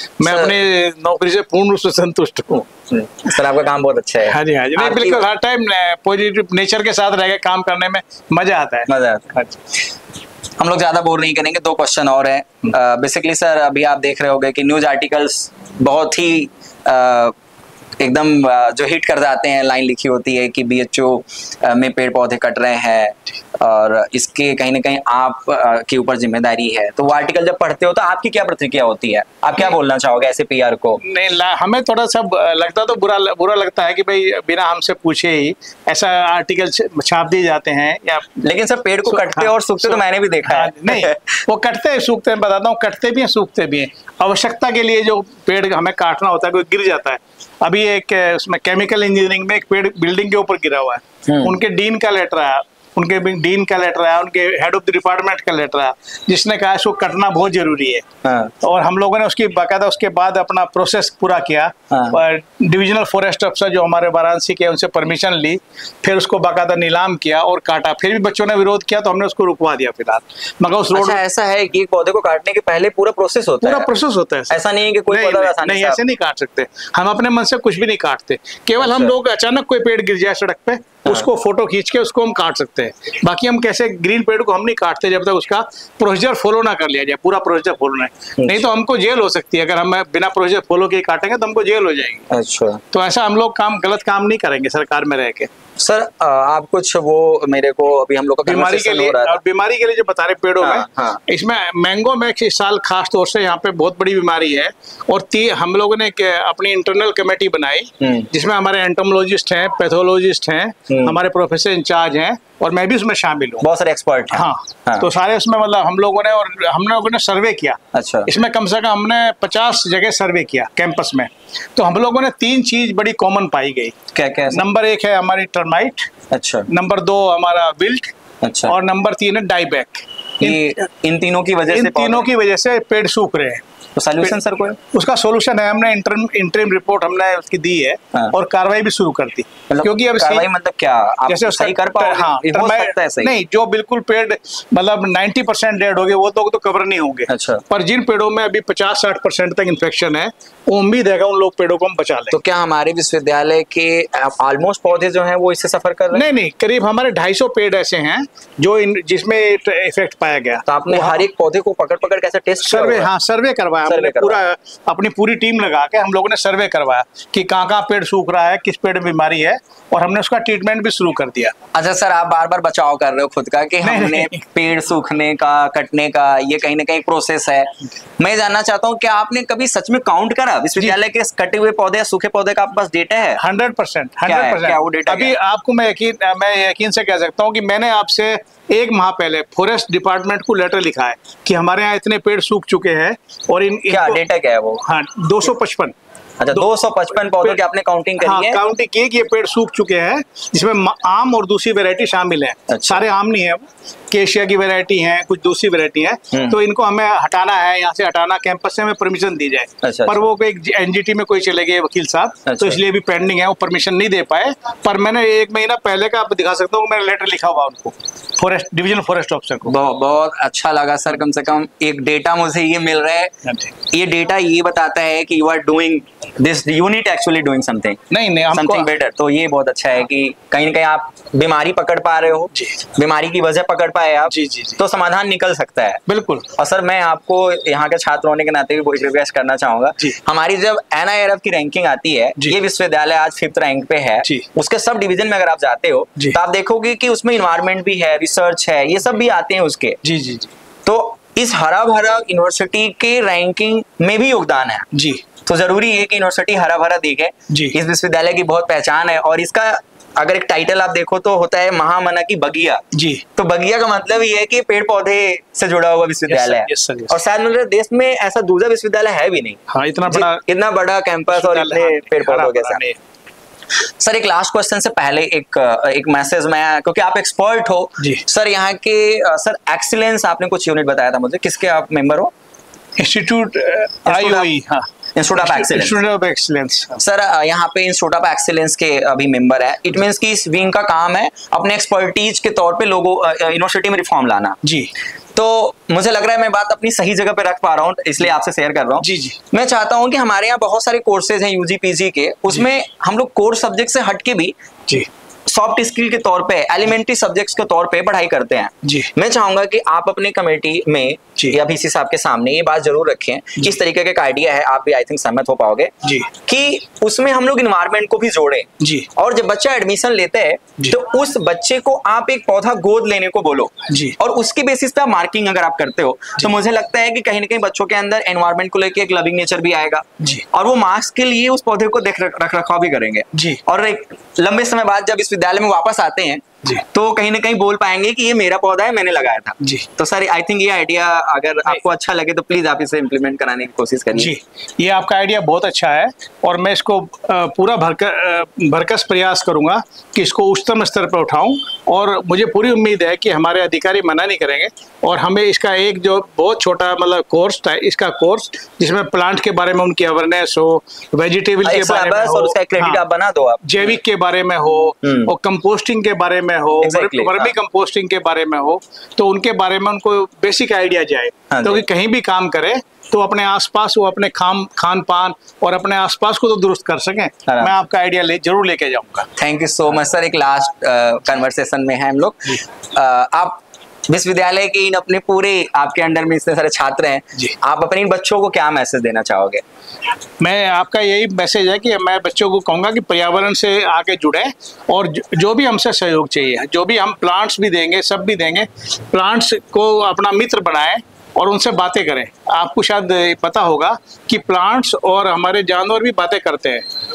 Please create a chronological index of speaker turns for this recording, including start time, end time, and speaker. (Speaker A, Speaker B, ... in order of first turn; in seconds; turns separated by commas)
Speaker A: 0.2-2.7, Speaker B: 0.2-0.6, Speaker B: 2.9-5.2, Speaker A: 4.3-9.6, Speaker B: 8.9-9.4, Speaker B: 10.6-17.3, Speaker B: 18.0-31.0, Speaker A: 31.0-38.3, Speaker B: 38.4-41.3, Speaker A: 39.0-58.0, Speaker B: 51.3-51.5, Speaker B: 58.2-58.5, Speaker A: 58.6-71.2, Speaker B: 61.9-62.2, Speaker B: 70.9-73.9, Speaker A: 73.6-74.6, Speaker B: 74.5-76.0, Speaker A: 75.1-92.2, Speaker B: 78.8-79.1, Speaker B: 88.4-88.7, Speaker B: 92.3-92.8, Speaker A: 92.9-95.5, Speaker B: 95.8-99.4, Speaker A: 98.5-113.6, Speaker B: 100.6-101.2, Speaker B: 108.0-108.3, Speaker B: 110.9-111.2, Speaker B: 113.6-115.1, Speaker A: 114.3-124.0, Speaker B: 117.9-118.3, Speaker B: 124.1-124.7, Speaker A: 124.5-126.1, Speaker B: 126.3-126.7, Speaker A: 126.7-128.1, Speaker B: 128.4-128.8, Speaker A: 128.7-130.7, Speaker B: 130.4-132.3, Speaker A: 131.7-133.6, Speaker B: 134.0-134.8, Speaker A: 134.9-140.5, Speaker B: 139.7-143.3, Speaker A: 141.3-152.4, Speaker B: 147.3-147.6, Speaker B: 152.3-156.2, Speaker A: 156.1-161.3, Speaker B: 160.7-163.1, Speaker A: 162.6-171.6, Speaker B: 163.8-164.4, Speaker B: 171.8-183.4, Speaker A: 173.8-174.4, Speaker A: 183.4-194.2, Speaker B: 184.3-185.3, Speaker B: 193.9-194.8, Speaker A: 194.8-195.9, Speaker B: 196.4-198.6, Speaker A: 196.5-197.6, Speaker A: 198.2-219.7, Speaker B: 202.7-203.1, Speaker B: 209.8-210.2, Speaker B: 212.5-212.8, Speaker B: 219.7-223.3, Speaker A: 223.4-223.7, Speaker B: 223.9-228.0, Speaker A: 228.1-228.9, Speaker B: 228.5-236.0, Speaker A: 234.3-234.8, Speaker A: 236.1-236.5, Speaker B: 236.6-250.0, Speaker A: 250.0-250.5, Speaker B: 250.8-254.9, Speaker A: 254.9-255.2, Speaker B: 255.5-262.8, Speaker A: 257.5-257.8, Speaker A: 262.9-263.2, Speaker B: 263.4-272.8, Speaker A: 266.3-267.2, Speaker A: 269.7-270.4, Speaker A: 271.3-273.0, Speaker B: 274.0-282.3, Speaker A: 283.0-287.0, Speaker B: 284.1-284.5, Speaker B: 285.2-286.0, Speaker B: 287.0-294.6, Speaker A: 294.6-294.9, Speaker B: 295.4-304.5, Speaker A: 299.0-299.4, Speaker B: 305.5-344.3, Speaker A: 308.8-309.1, Speaker A: 318.8-319.1, Speaker A: 323.9-324.2, Speaker A: 333.4-333.6, Speaker A: 339.6-339.9, Speaker A: 344.1-363.0, Speaker B: 361.6-364.0, Speaker A: 363.6-379.3, Speaker B: 365.0-365.3, Speaker B: 366.8-367.5, Speaker B: 371.5-371.8, Speaker B: 377.5-377.7, Speaker B: 379.4-389.6, Speaker A: 390.4-406.9